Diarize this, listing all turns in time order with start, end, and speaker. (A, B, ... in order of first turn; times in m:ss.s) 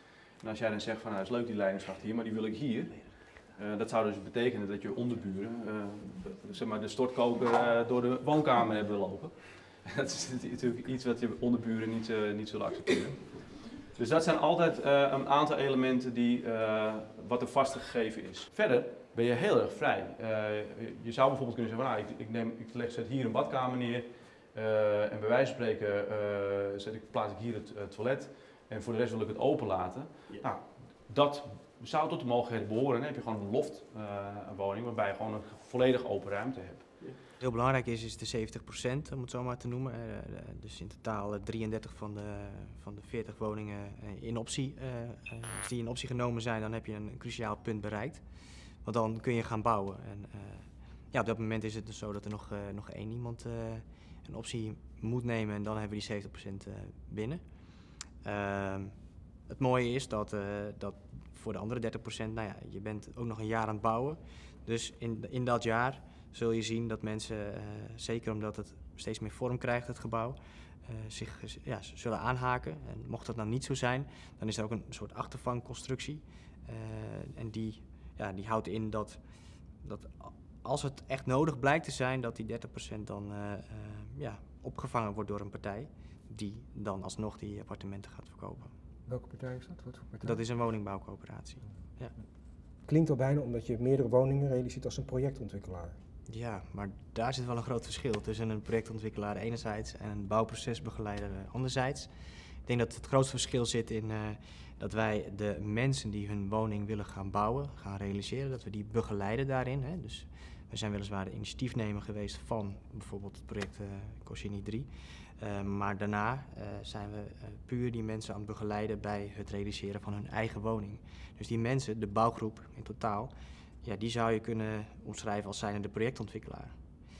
0:00.4-0:37.0 A
0:37.4-0:57.4 B
0:58.1-1:28.7 B
1:29.1-1:30.4 C
1:30.2-1:32.1 B
1:31.6-1:32.3 C
1:32.8-1:36.0 C
1:36.3-1:42.1 B
1:42.6-2:03.3 B
2:03.8-2:06.8 B